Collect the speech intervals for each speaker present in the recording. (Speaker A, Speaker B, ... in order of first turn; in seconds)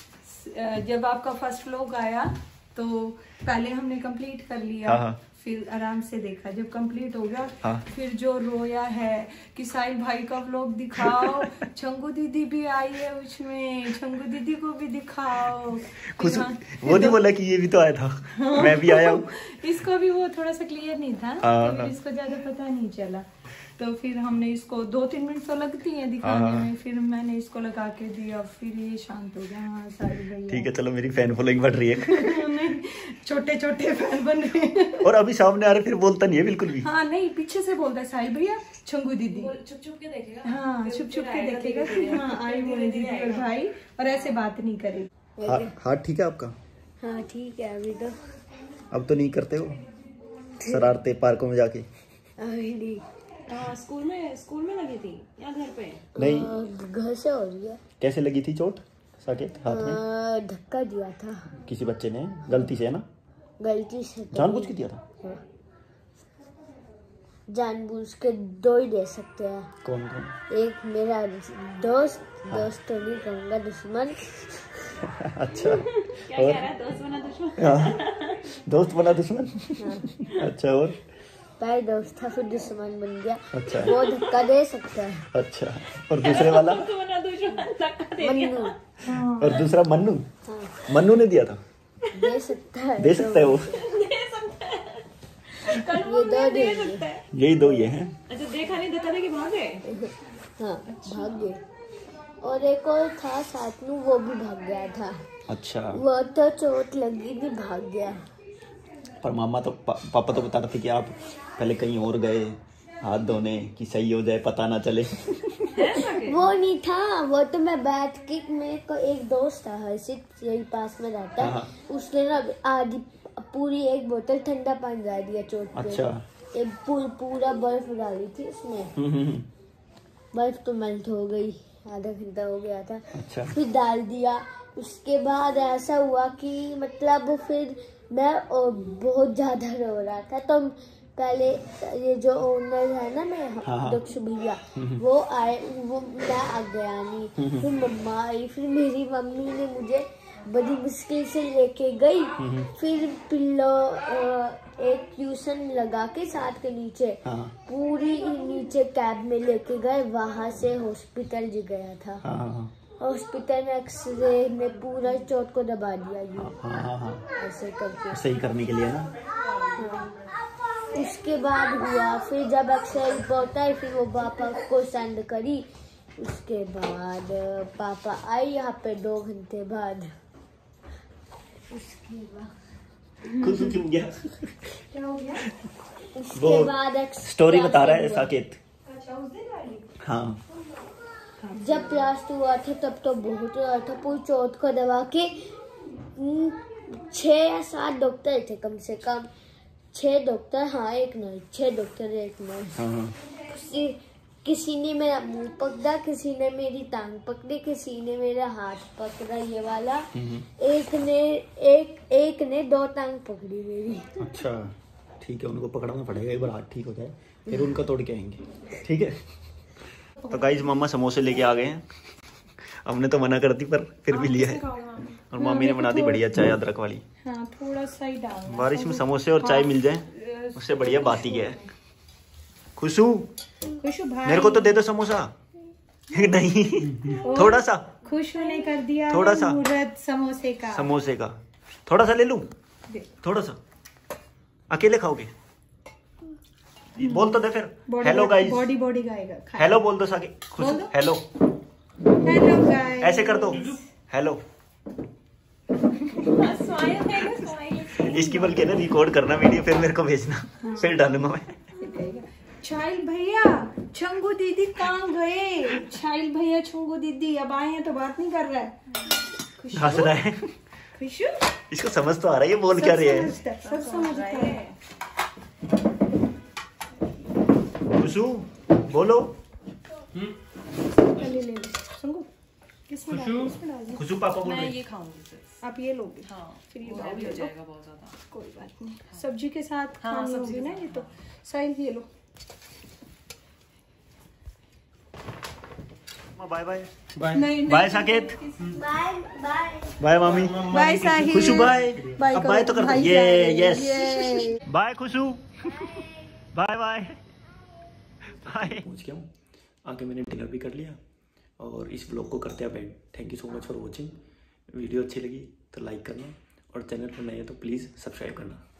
Speaker A: 0.2-17.2, 18.3-30.7, 32.0-35.1, 36.8-39.5, 40.4-45.1, 89.0-89.6, 184.9-185.5, 188.9-189.9, 191.4-192.0, 220.2-220.6, 225.3-226.3, 227.2-231.7, 233.8-234.8, 237.2-240.9, 247.9-249.7, 250.6-250.9, 252.2-253.8, 260.6-261.0, 261.8-270.1, 270.9-271.5, 272.7-274.7, 281.0-282.3, 282.9-284.1, 285.6-287.5, 288.3-292.1, 297.2-298.8, 300.6-304.6
Speaker B: 4.8-5.2, 16.0-19.3, 21.4-21.9, 26.2-26.7, 30.5-32.5, 35.0-36.9, 45.5-46.5, 48.9-49.8, 50.6-51.9, 56.2-56.5, 58.0-60.0, 61.6-63.0, 64.3-65.0, 69.8-70.4, 75.0-76.7, 77.6-78.0, 78.5-81.0, 83.5-83.9, 85.3-86.9, 89.1-90.3, 90.8-91.6, 93.0-93.8, 97.3-98.2, 105.5-106.0, 109.2-115.5, 121.4-121.7, 125.8-126.2, 129.0-129.5, 133.1-133.6, 143.6-144.0, 144.8-145.0, 147.4-147.7, 152.4-152.7, 157.2-157.5, 162.2-162.7, 166.4-167.2, 168.1-169.1, 183.3-184.7, 186.3-188.6, 190.0-190.4, 202.8-203.2, 210.2-210.4, 214.2-219.2, 220.3-221.8, 222.8-224.7, 225.2-227.0, 228.4-231.6, 232.8-233.3, 234.2-235.3, 236.1-237.9, 239.1-239.6, 240.7-241.3, 241.9-242.5, 243.2-243.6, 244.7-245.3, 246.9-248.7, 249.6-251.2, 253.0-254.4, 258.0-261.6, 269.7-270.5, 271.7-273.4, 277.9-279.4, 283.9-284.8, 296.4-298.4, 300.0-305.6, 306.5-307.2, 308.3-309.3, 309.9-311.0, 311.6-314.1, 314.7-318.6
Speaker C: 39.3-43.5, 53.5-56.0, 75.9-78.5, 86.2-88.8, 93.7-97.2, 98.3-99.8, 115.7-116.4, 224.1-225.2, 256.1-258.7, 273.6-274.8, 284.4-285.6, 286.2-288.2, 290.0-291.1
Speaker D: 45.4-45.7, 47.0-48.2, 50.6-50.9, 52.4-53.0, 56.2-57.8, 59.7-61.5, 63.6-65.4, 67.5-69.7, 70.5-74.3, 79.8-80.1, 81.6-85.3, 88.2-88.8, 90.5-90.8, 92.1-93.8, 95.9-97.1, 99.9-101.6, 102.4-105.2, 105.9-108.2, 115.9-128.9, 130.3-162.2, 163.0-166.6, 167.4-168.2, 169.8-170.1, 170.9-180.1, 181.7-182.5, 186.2-188.3, 191.5-195.4, 196.2-199.3, 199.9-214.2, 298.6-300.1, 305.6-306.3